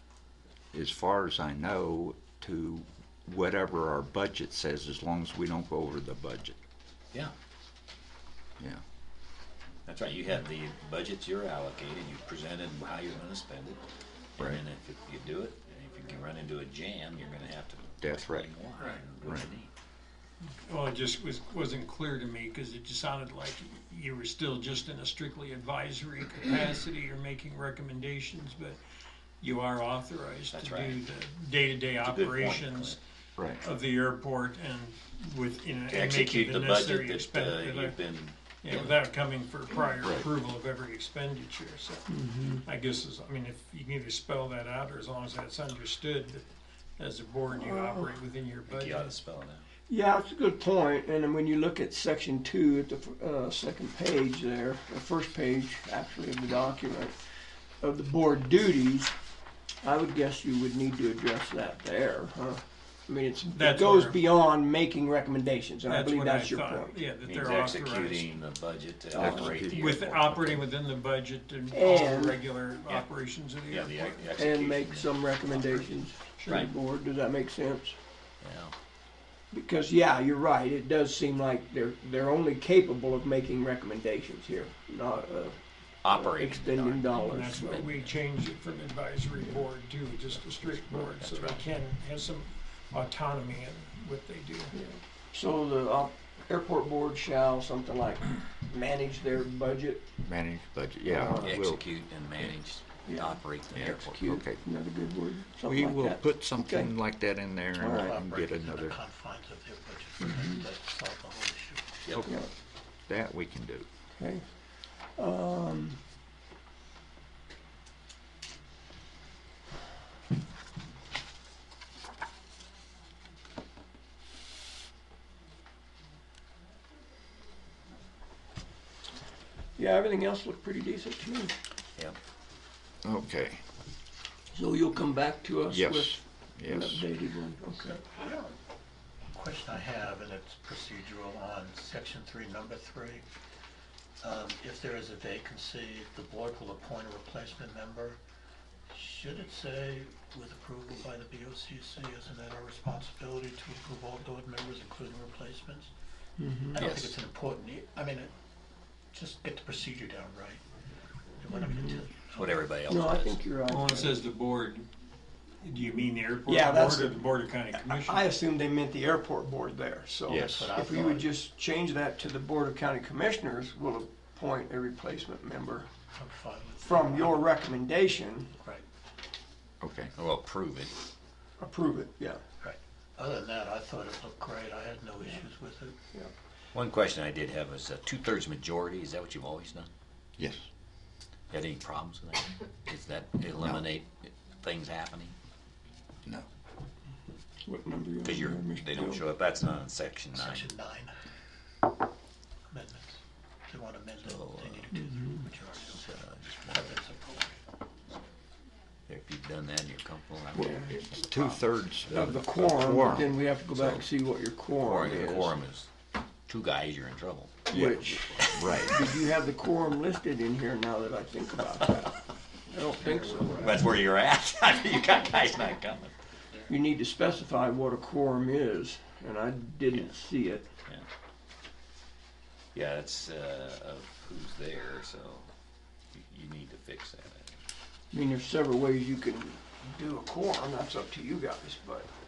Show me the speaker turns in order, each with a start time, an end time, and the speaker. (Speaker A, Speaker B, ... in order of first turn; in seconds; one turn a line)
Speaker A: 0.7-6.6
Speaker B: 9.9-13.8
Speaker B: 14.4-19.7
Speaker A: 18.0-18.5
Speaker A: 19.2-19.5
Speaker C: 20.6-28.8
Speaker C: 29.4-33.0
Speaker B: 30.5-31.1
Speaker B: 32.0-33.0
Speaker C: 33.6-38.0
Speaker B: 35.9-39.0
Speaker C: 38.6-46.5
Speaker D: 42.1-42.6
Speaker C: 47.0-49.1
Speaker D: 47.5-48.1
Speaker B: 48.7-49.6
Speaker D: 49.9-57.2
Speaker D: 57.8-59.1
Speaker D: 59.8-67.0
Speaker C: 63.5-64.3
Speaker C: 65.9-68.3
Speaker B: 67.2-70.6
Speaker A: 69.2-70.0
Speaker D: 69.2-69.5
Speaker C: 69.7-74.3
Speaker D: 71.7-72.4
Speaker B: 73.7-76.7
Speaker D: 74.4-78.0
Speaker C: 76.4-76.7
Speaker B: 78.4-78.8
Speaker D: 79.5-87.9
Speaker B: 86.0-88.1
Speaker C: 87.2-94.8
Speaker B: 90.4-91.7
Speaker D: 94.7-100.1
Speaker A: 100.2-101.9
Speaker D: 101.0-101.6
Speaker B: 101.4-104.3
Speaker D: 103.1-106.9
Speaker A: 103.7-104.6
Speaker A: 105.6-109.0
Speaker D: 107.8-108.2
Speaker E: 107.9-112.1
Speaker D: 110.2-110.6
Speaker B: 112.0-112.4
Speaker D: 112.2-112.5
Speaker A: 113.1-113.9
Speaker D: 114.2-114.4
Speaker D: 115.2-116.0
Speaker D: 129.8-131.5
Speaker A: 133.0-133.6
Speaker D: 134.5-138.1
Speaker A: 135.7-137.1
Speaker E: 137.8-138.6
Speaker E: 139.3-143.2
Speaker E: 144.2-148.2
Speaker E: 148.9-155.9
Speaker D: 156.4-156.8
Speaker E: 156.7-158.3
Speaker B: 156.8-157.2
Speaker E: 159.1-160.6
Speaker E: 161.4-162.8
Speaker D: 161.5-162.1
Speaker B: 162.3-163.4
Speaker D: 162.9-164.2
Speaker C: 163.7-164.9
Speaker C: 165.6-168.3
Speaker D: 166.5-176.0
Speaker A: 170.3-170.7
Speaker E: 170.4-171.3
Speaker E: 176.1-177.5
Speaker D: 176.8-178.6
Speaker E: 178.6-178.8
Speaker A: 179.8-180.1
Speaker B: 180.2-180.9
Speaker D: 181.6-182.4
Speaker E: 182.6-186.0
Speaker B: 186.7-189.9
Speaker A: 190.4-190.7
Speaker B: 191.5-195.3
Speaker D: 197.7-199.2
Speaker B: 198.2-200.7
Speaker E: 200.3-201.1
Speaker E: 202.7-207.6
Speaker B: 204.2-204.9
Speaker D: 204.9-205.4
Speaker B: 206.0-206.9
Speaker B: 209.1-214.1
Speaker D: 210.6-211.0
Speaker A: 210.9-213.3
Speaker D: 212.1-215.6
Speaker B: 214.8-215.9
Speaker B: 216.5-219.0
Speaker D: 217.7-223.8
Speaker A: 217.7-219.0
Speaker B: 223.2-226.1
Speaker D: 226.7-230.7
Speaker B: 232.7-235.5
Speaker B: 236.1-237.6
Speaker D: 238.1-242.1